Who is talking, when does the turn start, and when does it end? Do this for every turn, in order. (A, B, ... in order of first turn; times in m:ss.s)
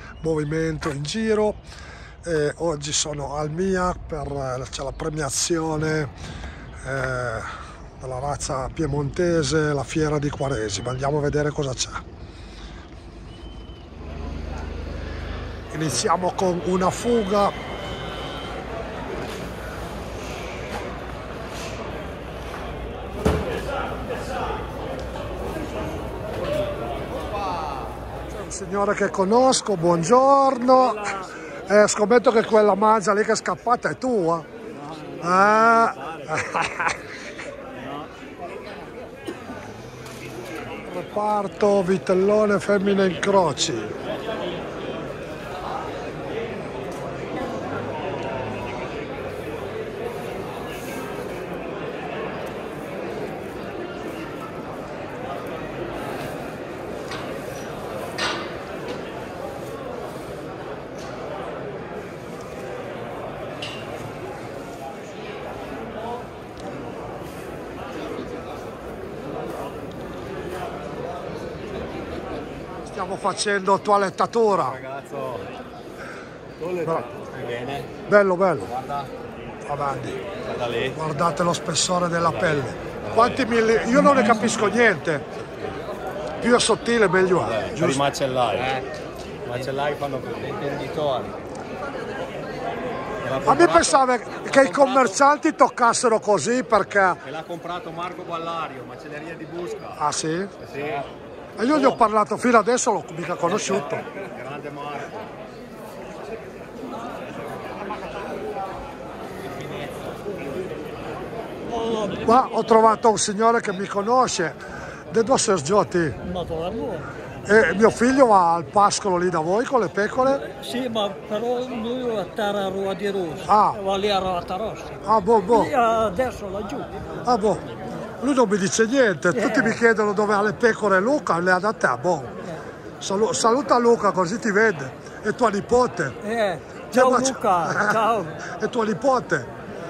0:00.2-0:01.6 A
0:02.2-0:06.1 A
0:06.8-0:12.0 A
0:15.7-0:17.5 A
0:28.3-0:34.4 A
0:35.2-0:37.0 A
0:40.8-0:43.9 A
1:12.8-1:14.8 A
1:14.5-1:15.4 B
1:16.6-1:17.9 B
1:16.8-1:17.1 A
1:18.1-1:18.7 A
1:18.7-1:19.1 B
1:19.6-1:20.2 A
1:20.4-1:21.0 B
1:20.9-1:25.2 A
1:22.2-1:23.4 B
1:23.9-1:24.6 B
1:26.4-1:28.0 A
1:27.3-1:28.8 B
1:29.4-1:31.3 B
1:33.2-1:35.2 B
1:33.4-1:37.2 A
1:37.2-1:40.0 B
1:40.0-1:40.5 A
1:40.6-1:41.1 B
1:41.6-1:44.0 A
1:41.7-1:42.0 B
1:43.4-1:45.2 B
1:49.4-1:50.1 B
1:51.6-1:52.8 C
1:52.2-1:54.6 A
1:55.1-1:56.2 A
1:56.2-1:57.1 C
1:57.4-2:00.4 A
2:00.2-2:06.9 C
2:03.4-2:03.8 A
2:05.0-2:05.7 A
2:07.2-2:07.6 A
2:08.2-2:12.3 A
2:09.3-2:09.8 C
2:13.0-2:16.2 A
2:16.2-2:18.3 C
2:16.9-2:19.5 A